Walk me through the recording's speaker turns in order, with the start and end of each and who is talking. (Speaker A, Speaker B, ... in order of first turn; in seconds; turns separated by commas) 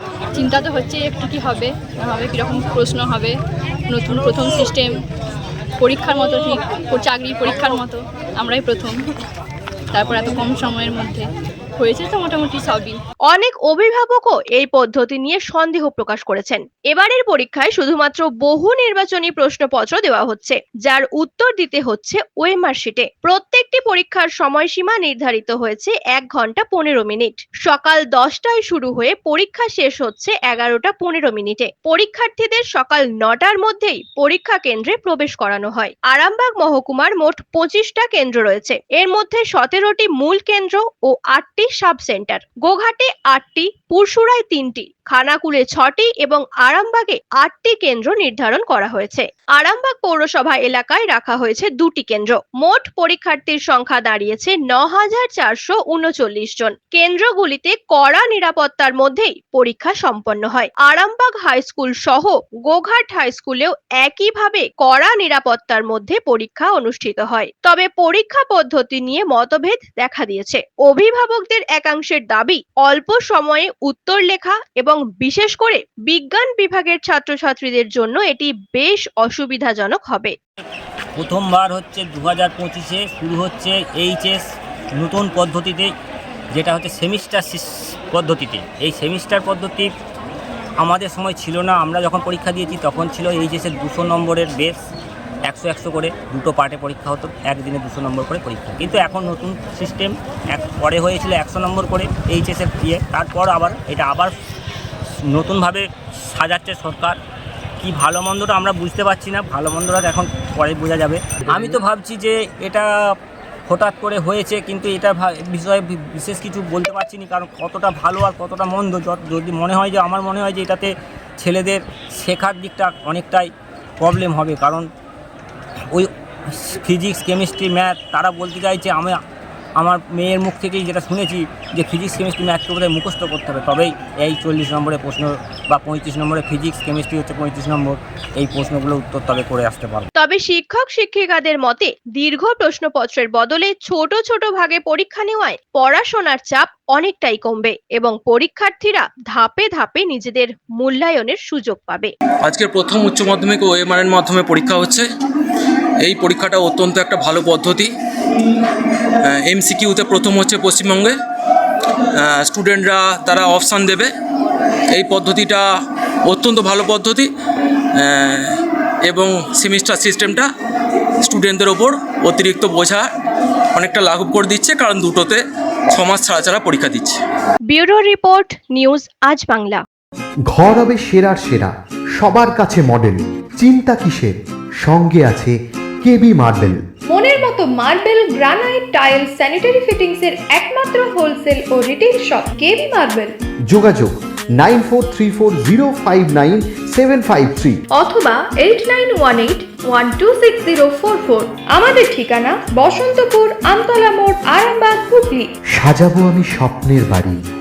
Speaker A: 0.3-3.3, Speaker A: 3.9-5.0, Speaker A: 5.8-8.9, Speaker A: 9.9-11.2, Speaker A: 11.8-13.0, Speaker B: 13.3-80.3, Speaker C: 81.2-84.4, Speaker C: 85.0-85.9, Speaker C: 86.5-89.9, Speaker C: 90.8-94.8, Speaker C: 95.5-104.3, Speaker C: 105.3-107.2, Speaker C: 107.8-112.9, Speaker C: 113.7-124.9, Speaker C: 125.9-129.2, Speaker C: 129.8-140.1, Speaker B: 140.1-152.1, Speaker D: 152.4-155.1, Speaker D: 156.0-157.9, Speaker D: 159.2-161.2, Speaker D: 162.1-164.1, Speaker D: 164.9-165.7, Speaker D: 166.3-167.3, Speaker D: 167.9-170.5, Speaker D: 171.2-173.1, Speaker D: 173.7-177.2, Speaker B: 177.7-179.8, Speaker E: 180.5-186.8, Speaker F: 187.1-193.3, Speaker E: 193.7-197.8, Speaker F: 197.9-205.5, Speaker E: 205.8-207.4